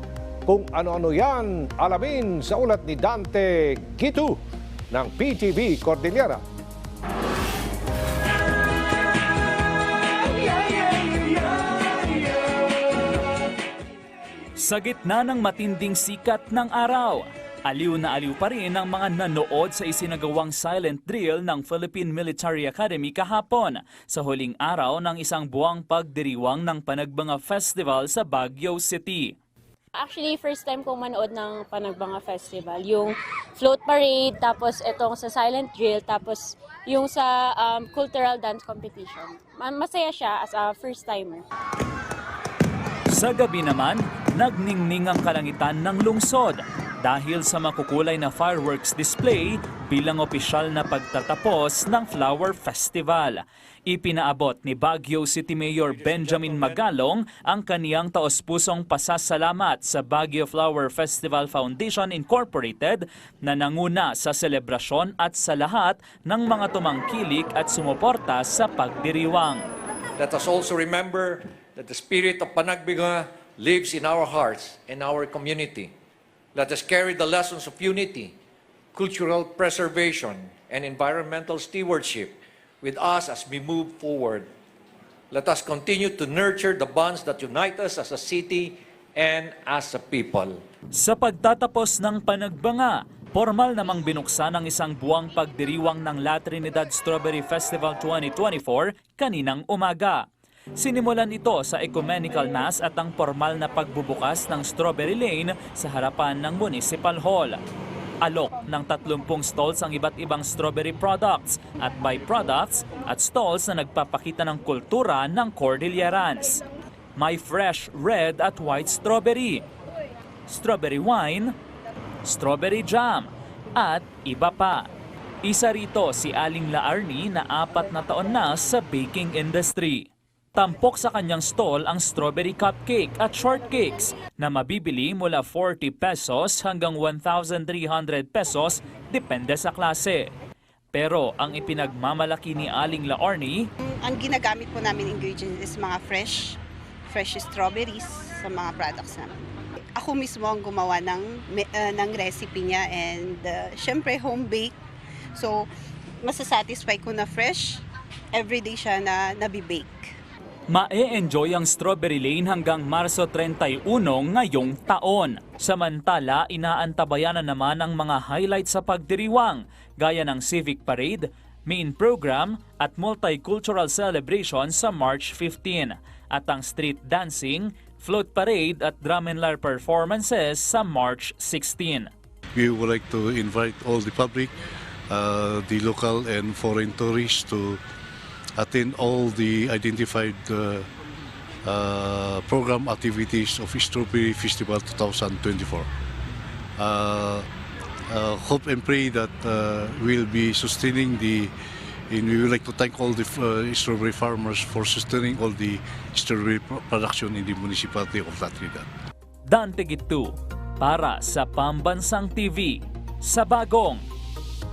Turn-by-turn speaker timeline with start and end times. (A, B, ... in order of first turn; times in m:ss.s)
0:00.5-0:04.4 A
0:04.9-0:06.4 A
0:14.6-0:29.3 B
0:30.0-0:41.4 C
0:43.1-1:09.6 B
0:55.9-0:56.8 D
1:10.2-1:15.9 D
1:16.6-1:18.3 D
1:18.9-1:24.5 D
1:25.3-1:30.6 D
1:30.9-1:40.2 B
1:40.8-1:47.6 B
1:48.2-1:56.6 B
1:57.2-1:59.6 B
2:00.5-2:01.5 B
2:02.2-2:04.9 B
2:05.4-2:20.3 B
2:20.9-2:23.6 B
2:23.9-2:26.6 E
2:27.1-2:34.8 E
2:35.4-2:35.6 E
2:36.2-2:37.8 E
2:38.3-2:40.1 E
2:40.7-3:02.1 B
3:02.6-3:04.5 F
3:05.1-3:07.8 F
3:08.6-3:10.9 F
3:11.6-3:15.9 F
3:16.8-3:17.5 F
3:18.1-3:21.5 F
3:22.1-3:28.9 F
3:29.5-3:34.0 B